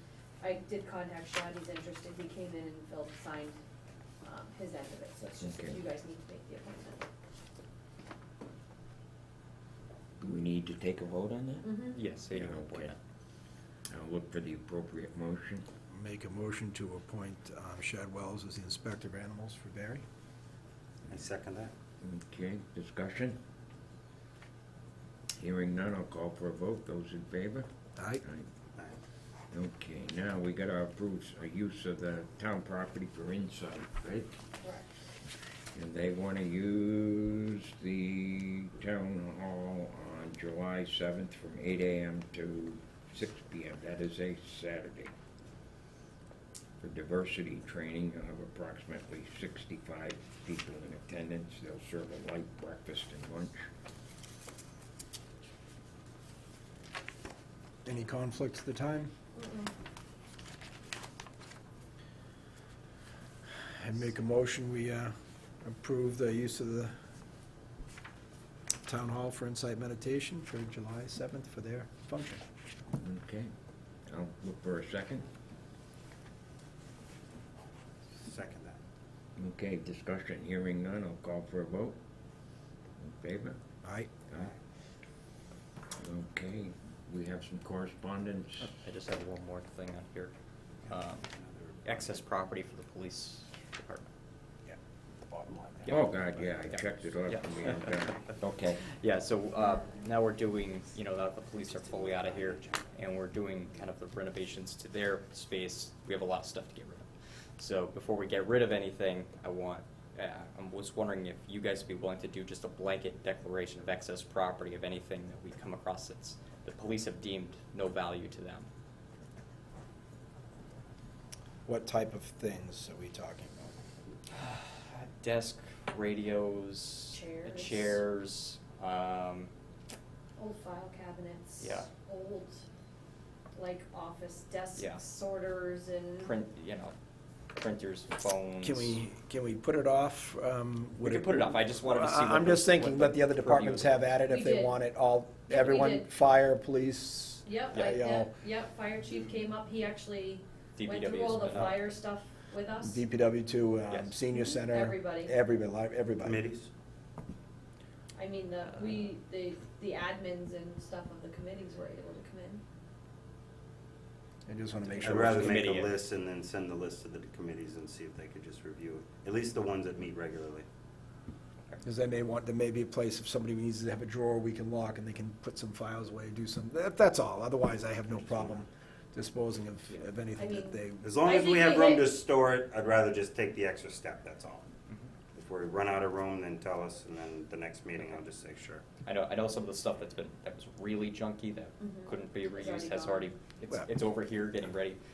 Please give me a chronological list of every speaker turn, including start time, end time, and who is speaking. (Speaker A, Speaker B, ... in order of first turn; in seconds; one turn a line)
Speaker A: 0.4-3.6
Speaker A: 4.2-7.0
Speaker B: 5.4-5.8
Speaker B: 10.2-11.8
Speaker A: 11.6-12.0
Speaker C: 11.9-13.0
Speaker B: 12.3-13.0
Speaker B: 13.9-15.7
Speaker D: 15.9-20.0
Speaker E: 21.1-21.7
Speaker B: 22.0-23.4
Speaker B: 25.4-27.7
Speaker D: 28.0-28.2
Speaker B: 28.2-28.5
Speaker B: 29.5-34.3
Speaker A: 34.6-34.9
Speaker B: 35.7-45.1
Speaker B: 46.8-53.7
Speaker D: 57.9-59.1
Speaker A: 59.4-59.7
Speaker D: 63.7-66.9
Speaker D: 68.9-72.4
Speaker B: 73.0-73.5
Speaker B: 74.1-75.3
Speaker E: 78.1-78.8
Speaker B: 79.4-82.0
Speaker B: 83.0-83.6
Speaker D: 83.8-84.1
Speaker B: 86.0-88.8
Speaker C: 88.6-90.3
Speaker C: 90.9-91.3
Speaker E: 90.9-92.2
Speaker C: 91.8-94.1
Speaker D: 94.7-96.2
Speaker B: 95.9-98.8
Speaker C: 96.6-118.7
Speaker A: 99.6-100.1
Speaker E: 101.7-102.9
Speaker D: 121.7-123.8
Speaker C: 124.3-129.5
Speaker A: 127.1-128.0
Speaker A: 130.4-132.6
Speaker C: 131.6-131.9
Speaker A: 133.6-136.3
Speaker C: 136.2-137.0
Speaker C: 137.5-139.0
Speaker D: 138.6-148.3
Speaker C: 141.0-144.0
Speaker A: 144.3-144.8
Speaker A: 145.5-146.1
Speaker A: 147.4-153.0
Speaker C: 147.7-148.0
Speaker C: 150.8-151.9
Speaker D: 152.8-156.4
Speaker C: 153.9-154.2
Speaker A: 154.3-155.3
Speaker E: 156.2-156.7
Speaker A: 158.2-162.6
Speaker D: 164.5-165.6
Speaker C: 165.0-166.0
Speaker E: 165.0-170.7
Speaker D: 171.8-181.2
Speaker E: 178.1-178.6
Speaker A: 180.4-182.1
Speaker E: 181.0-184.7
Speaker E: 185.3-188.9
Speaker C: 189.0-195.0
Speaker A: 191.8-193.3